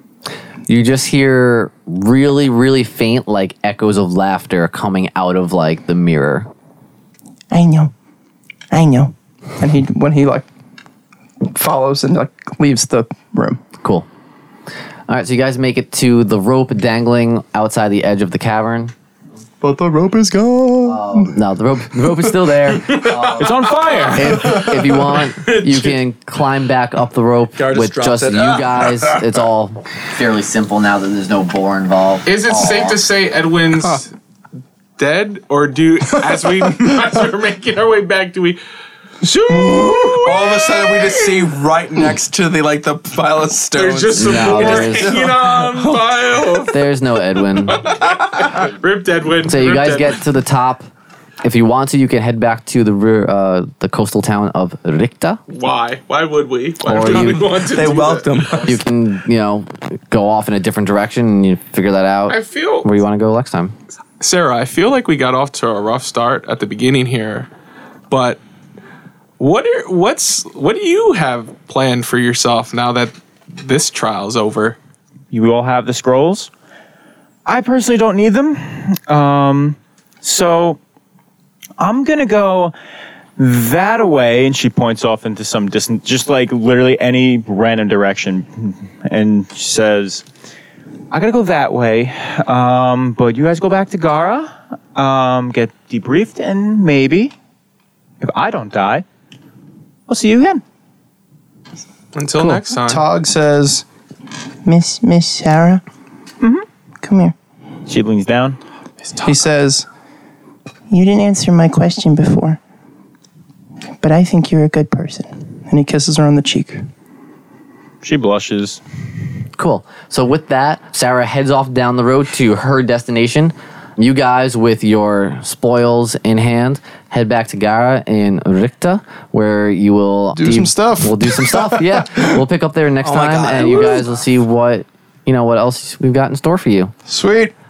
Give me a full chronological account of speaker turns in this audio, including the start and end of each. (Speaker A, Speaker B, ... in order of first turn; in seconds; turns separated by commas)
Speaker A: 0.7-6.5, Speaker B: 7.5-7.9, Speaker B: 8.7-9.1, Speaker C: 9.6-10.5, Speaker C: 11.4-13.6, Speaker A: 13.8-14.1, Speaker A: 15.1-18.9, Speaker C: 19.6-21.4, Speaker A: 20.9-23.5, Speaker D: 22.9-24.7, Speaker E: 23.4-24.5, Speaker A: 24.1-33.0, Speaker D: 25.5-26.0, Speaker F: 27.6-29.2, Speaker D: 32.3-34.1, Speaker D: 35.0-38.6, Speaker D: 39.2-41.5, Speaker F: 40.1-46.5, Speaker D: 43.7-46.8, Speaker A: 44.2-45.2, Speaker A: 46.7-47.8, Speaker D: 47.6-50.2, Speaker F: 48.0-48.5, Speaker A: 49.5-50.9, Speaker A: 51.4-55.4, Speaker D: 55.5-58.8, Speaker A: 56.9-57.5, Speaker F: 57.0-58.8, Speaker A: 58.6-63.8, Speaker D: 62.3-62.9, Speaker D: 64.2-67.5, Speaker D: 68.1-68.4, Speaker D: 69.4-74.8, Speaker E: 75.3-76.5, Speaker E: 77.5-80.8, Speaker E: 81.8-82.7, Speaker E: 83.4-90.2, Speaker E: 91.1-97.3, Speaker E: 98.2-99.0, Speaker E: 100.1-100.6, Speaker D: 102.1-103.1, Speaker C: 102.8-103.8, Speaker B: 104.7-105.8, Speaker E: 106.4-106.7, Speaker B: 107.0-107.3, Speaker E: 107.9-108.6, Speaker C: 109.2-109.9, Speaker B: 110.9-112.6, Speaker B: 114.0-115.5, Speaker C: 115.7-116.8, Speaker E: 118.0-118.8, Speaker A: 119.6-136.9, Speaker C: 130.4-132.2, Speaker F: 133.0-134.2, Speaker C: 137.1-137.5